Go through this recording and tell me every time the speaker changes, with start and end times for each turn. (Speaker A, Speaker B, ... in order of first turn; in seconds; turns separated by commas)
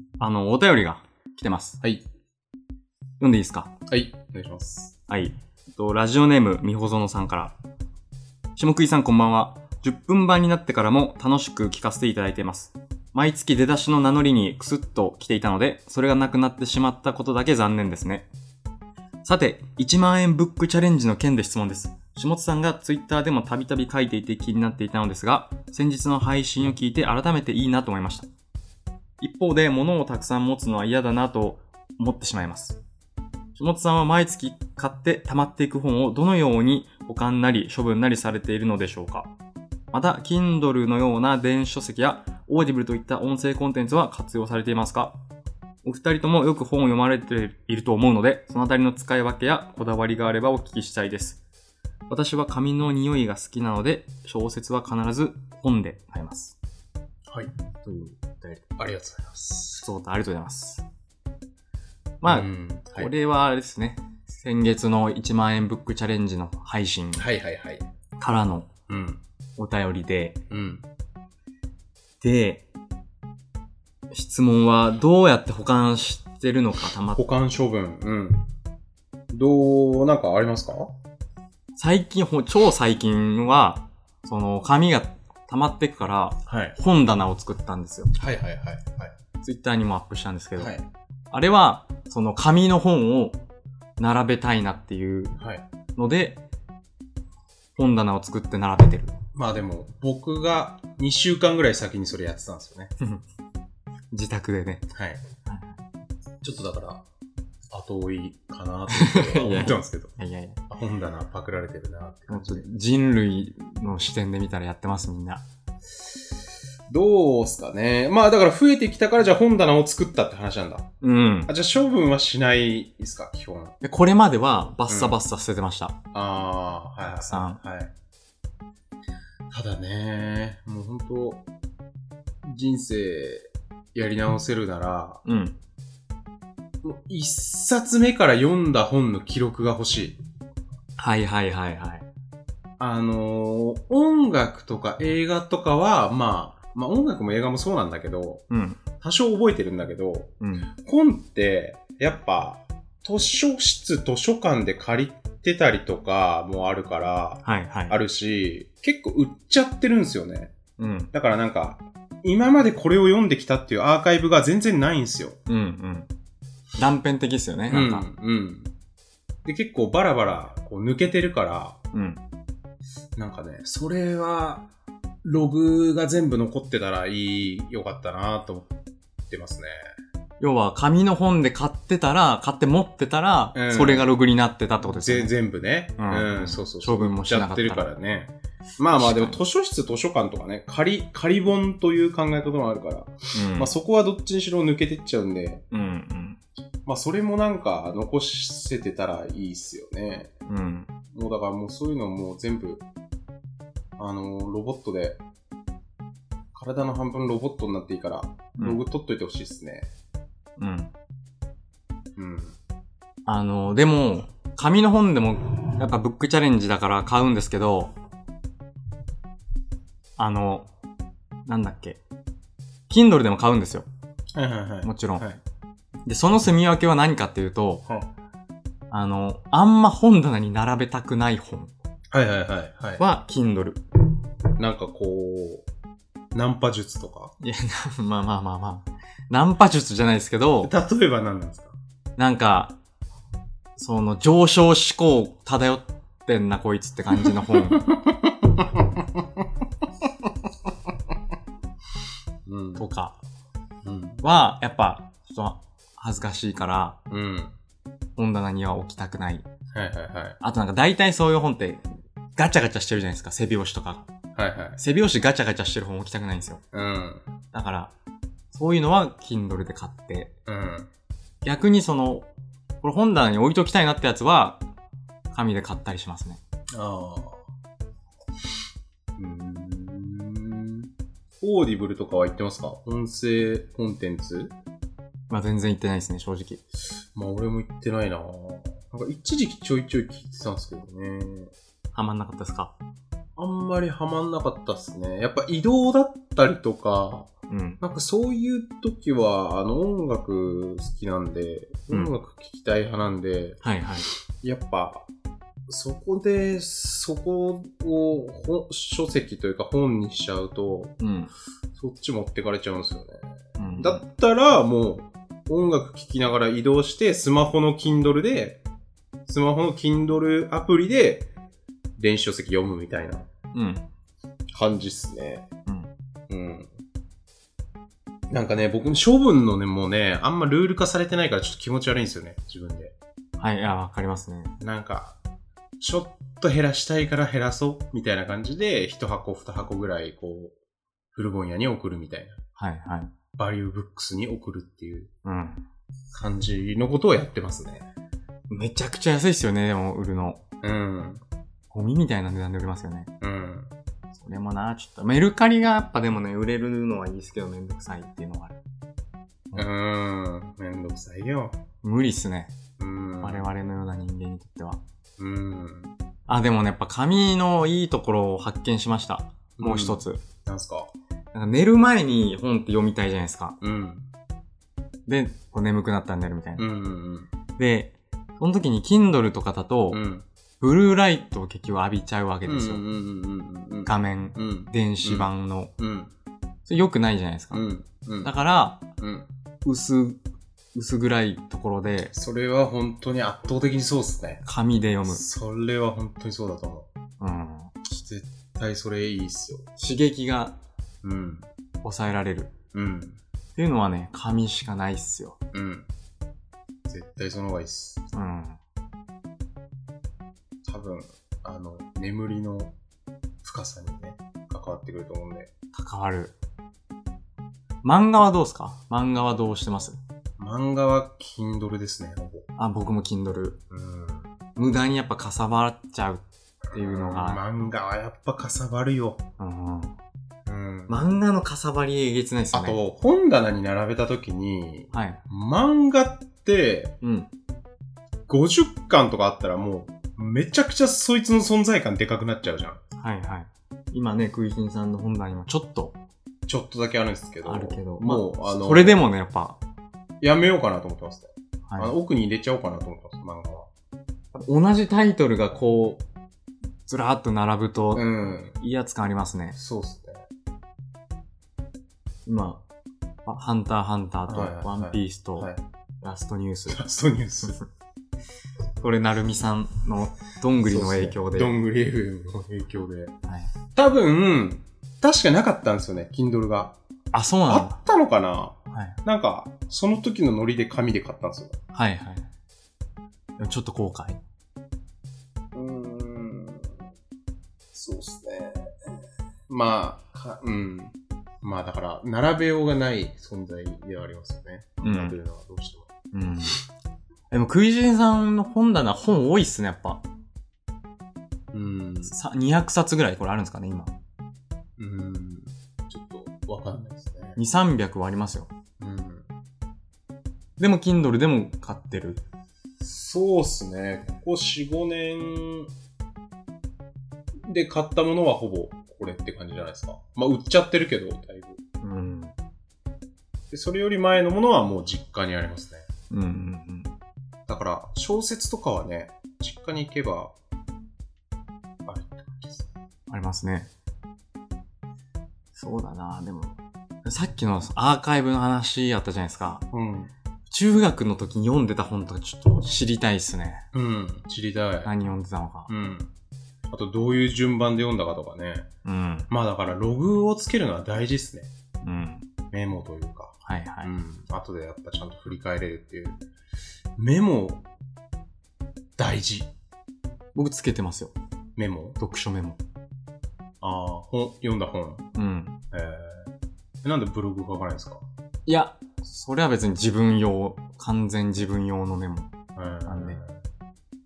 Speaker A: 0.2-1.8, Speaker A: 3.2-3.7, Speaker B: 3.9-4.9, Speaker A: 5.1-7.5, Speaker A: 8.6-18.3, Speaker A: 19.2-28.3, Speaker A: 29.2-32.8, Speaker A: 33.6-39.3, Speaker A: 39.9-45.1, Speaker A: 45.8-51.4, Speaker A: 52.1-56.6, Speaker A: 57.8-58.6, Speaker B: 58.8-59.8, Speaker A: 59.7-60.9, Speaker A: 62.2-67.3, Speaker B: 62.2-63.1, Speaker B: 67.2-67.8, Speaker A: 68.2-68.7, Speaker B: 68.9-69.2, Speaker A: 69.6-70.4, Speaker B: 70.5-70.8, Speaker A: 72.2-72.6, Speaker A: 74.1-77.2, Speaker B: 77.2-78.5, Speaker B: 79.3-80.9, Speaker A: 81.8-88.1, Speaker B: 86.5-86.8, Speaker B: 88.2-89.1, Speaker A: 89.4-90.7, Speaker B: 90.6-90.9, Speaker A: 91.3-93.4, Speaker A: 94.0-95.4, Speaker B: 95.4-95.6, Speaker A: 96.0-96.4, Speaker A: 97.8-99.1, Speaker B: 99.3-102.9, Speaker A: 104.1-104.8, Speaker B: 104.9-105.2, Speaker A: 105.5-105.8, Speaker B: 106.4-107.0, Speaker B: 107.7-110.2, Speaker A: 108.9-110.6, Speaker B: 110.7-112.7, Speaker A: 112.3-115.4, Speaker B: 116.9-120.9, Speaker A: 121.0-121.5, Speaker B: 121.5-123.8, Speaker A: 123.8-126.0, Speaker B: 124.9-125.2, Speaker B: 126.1-127.9, Speaker A: 127.2-127.6, Speaker B: 129.5-131.4, Speaker B: 132.4-135.2, Speaker A: 135.2-135.6, Speaker B: 136.8-140.2, Speaker A: 141.0-142.1, Speaker B: 142.8-148.4, Speaker A: 148.5-148.8, Speaker B: 149.0-150.3, Speaker A: 150.4-150.7, Speaker B: 150.8-160.5, Speaker A: 157.4-158.0, Speaker A: 160.8-161.1, Speaker B: 161.1-165.4, Speaker A: 165.5-166.1, Speaker A: 166.8-168.1, Speaker B: 167.7-168.7, Speaker B: 169.4-171.8, Speaker A: 171.9-172.2, Speaker B: 173.2-174.7, Speaker B: 175.2-178.7, Speaker B: 179.3-179.8, Speaker A: 180.4-185.3, Speaker B: 183.6-184.1, Speaker B: 184.8-195.6, Speaker A: 186.0-187.9, Speaker A: 188.9-189.4, Speaker A: 193.3-193.7, Speaker A: 195.7-196.4, Speaker B: 196.9-200.3, Speaker A: 200.5-200.9, Speaker B: 201.1-202.8, Speaker B: 204.0-205.2, Speaker B: 206.5-209.9, Speaker A: 210.6-210.9, Speaker B: 212.2-212.6, Speaker A: 213.3-217.9, Speaker A: 220.2-220.7, Speaker A: 221.5-222.0, Speaker A: 222.9-223.9, Speaker B: 224.3-225.4, Speaker A: 224.8-225.2, Speaker A: 226.1-227.8, Speaker A: 228.9-231.7, Speaker B: 232.1-233.0, Speaker A: 233.0-233.8, Speaker B: 234.6-235.7, Speaker B: 236.3-237.3, Speaker A: 237.4-240.7, Speaker B: 240.6-241.8, Speaker A: 242.2-242.7, Speaker A: 243.8-247.8, Speaker B: 247.2-249.0, Speaker B: 252.5-252.8, Speaker A: 252.8-253.2, Speaker B: 253.8-254.2, Speaker A: 254.2-257.0, Speaker B: 257.1-257.5, Speaker A: 258.2-259.4, Speaker B: 259.7-260.4, Speaker A: 260.4-261.9, Speaker A: 262.4-264.1, Speaker B: 264.4-264.8, Speaker A: 264.8-266.6, Speaker B: 266.7-267.2, Speaker A: 267.5-267.9, Speaker A: 268.5-270.3, Speaker B: 270.5-270.9, Speaker A: 271.4-272.3, Speaker A: 272.8-274.6, Speaker A: 275.3-276.4, Speaker B: 276.8-277.4, Speaker B: 279.2-280.9, Speaker B: 281.4-284.5, Speaker A: 285.3-286.6, Speaker B: 287.1-291.5, Speaker A: 291.9-292.8, Speaker B: 293.4-297.3, Speaker A: 297.5-297.8, Speaker B: 297.8-303.6, Speaker A: 303.6-304.1, Speaker B: 304.4-305.1, Speaker B: 305.7-311.0, Speaker A: 311.0-311.3, Speaker B: 311.8-313.2, Speaker A: 313.6-314.0, Speaker B: 313.8-318.6, Speaker B: 319.3-321.3, Speaker B: 322.0-323.3, Speaker A: 323.5-323.9, Speaker B: 324.5-325.5, Speaker B: 326.3-326.7, Speaker B: 328.3-332.9, Speaker A: 333.4-334.6, Speaker B: 334.6-335.2, Speaker B: 335.8-340.6, Speaker B: 341.1-342.4, Speaker A: 342.6-343.1, Speaker B: 343.4-345.1, Speaker A: 345.2-345.6, Speaker B: 346.1-347.9, Speaker A: 348.5-350.4, Speaker B: 350.6-351.2, Speaker A: 351.7-353.1, Speaker B: 353.2-353.7, Speaker A: 354.1-358.6, Speaker B: 359.6-361.6, Speaker A: 361.8-362.5, Speaker B: 362.8-363.5, Speaker A: 363.2-364.8, Speaker B: 365.2-365.9, Speaker A: 366.3-370.2, Speaker B: 369.6-370.9, Speaker A: 371.3-373.6, Speaker B: 373.6-374.1, Speaker A: 375.1-376.7, Speaker B: 376.6-377.3, Speaker A: 377.6-380.0, Speaker B: 379.9-380.2, Speaker A: 380.6-382.8, Speaker B: 382.4-386.1, Speaker A: 383.9-385.7, Speaker A: 386.7-387.6, Speaker B: 387.5-388.3, Speaker A: 388.2-388.8, Speaker B: 389.0-389.3, Speaker A: 389.6-390.2, Speaker A: 390.8-392.1, Speaker B: 392.1-394.4, Speaker A: 394.4-395.2, Speaker B: 395.0-396.9, Speaker A: 397.2-397.7, Speaker B: 397.9-399.7, Speaker A: 399.8-400.6, Speaker B: 401.0-401.5, Speaker A: 401.8-402.5, Speaker B: 402.7-403.2, Speaker A: 403.6-405.4, Speaker B: 405.5-405.9, Speaker B: 406.9-408.0, Speaker A: 408.1-408.6, Speaker B: 410.7-412.7, Speaker B: 413.4-415.5, Speaker A: 415.7-416.3, Speaker A: 417.8-420.0, Speaker B: 420.4-422.5, Speaker A: 422.6-423.6, Speaker B: 423.7-424.3, Speaker A: 424.6-427.4, Speaker B: 426.7-429.2, Speaker A: 429.4-429.9, Speaker B: 430.5-431.1, Speaker A: 430.9-432.8, Speaker B: 432.5-436.9, Speaker A: 434.9-435.2, Speaker A: 437.0-437.3, Speaker B: 438.3-442.8, Speaker A: 443.0-446.0, Speaker B: 446.5-449.0, Speaker A: 447.4-449.6, Speaker B: 450.2-453.7, Speaker A: 451.7-452.0, Speaker A: 454.3-456.0, Speaker A: 456.9-459.6, Speaker B: 457.9-458.6, Speaker B: 459.6-460.2, Speaker A: 462.3-462.6, Speaker A: 463.3-465.5, Speaker B: 464.3-465.6, Speaker A: 466.0-466.8, Speaker B: 466.7-467.6, Speaker A: 468.8-471.6, Speaker B: 470.6-473.1, Speaker B: 473.8-476.7, Speaker A: 477.1-477.8, Speaker B: 477.5-481.6, Speaker A: 478.7-479.0, Speaker A: 481.7-482.3, Speaker A: 483.4-484.2, Speaker B: 485.5-486.8, Speaker B: 487.7-488.7, Speaker B: 489.5-495.9, Speaker A: 494.8-495.2, Speaker A: 496.1-496.6, Speaker A: 497.3-500.0, Speaker B: 501.5-502.1, Speaker A: 502.1-503.9, Speaker B: 504.8-507.4, Speaker A: 507.4-508.5, Speaker B: 508.8-509.3, Speaker A: 510.6-512.2, Speaker B: 512.8-515.7, Speaker B: 517.5-521.6, Speaker A: 521.8-522.3, Speaker B: 523.5-525.9, Speaker A: 526.1-526.9, Speaker B: 527.5-530.3, Speaker B: 531.9-532.7, Speaker A: 533.1-533.7, Speaker A: 535.6-539.6, Speaker B: 539.7-540.1, Speaker A: 540.5-543.6, Speaker B: 543.7-544.9, Speaker A: 544.8-545.7, Speaker B: 545.7-546.1, Speaker B: 546.7-548.7, Speaker A: 548.9-549.3, Speaker B: 549.3-551.5, Speaker A: 551.8-552.2, Speaker B: 552.5-556.2, Speaker A: 553.5-553.9, Speaker B: 557.0-557.6, Speaker B: 559.0-559.5, Speaker A: 560.4-561.1, Speaker B: 561.6-562.0, Speaker A: 562.0-562.6, Speaker B: 563.6-565.0, Speaker A: 565.1-565.6, Speaker B: 565.7-566.3, Speaker B: 566.8-568.0, Speaker A: 568.5-572.3, Speaker B: 572.6-573.4, Speaker A: 572.9-573.2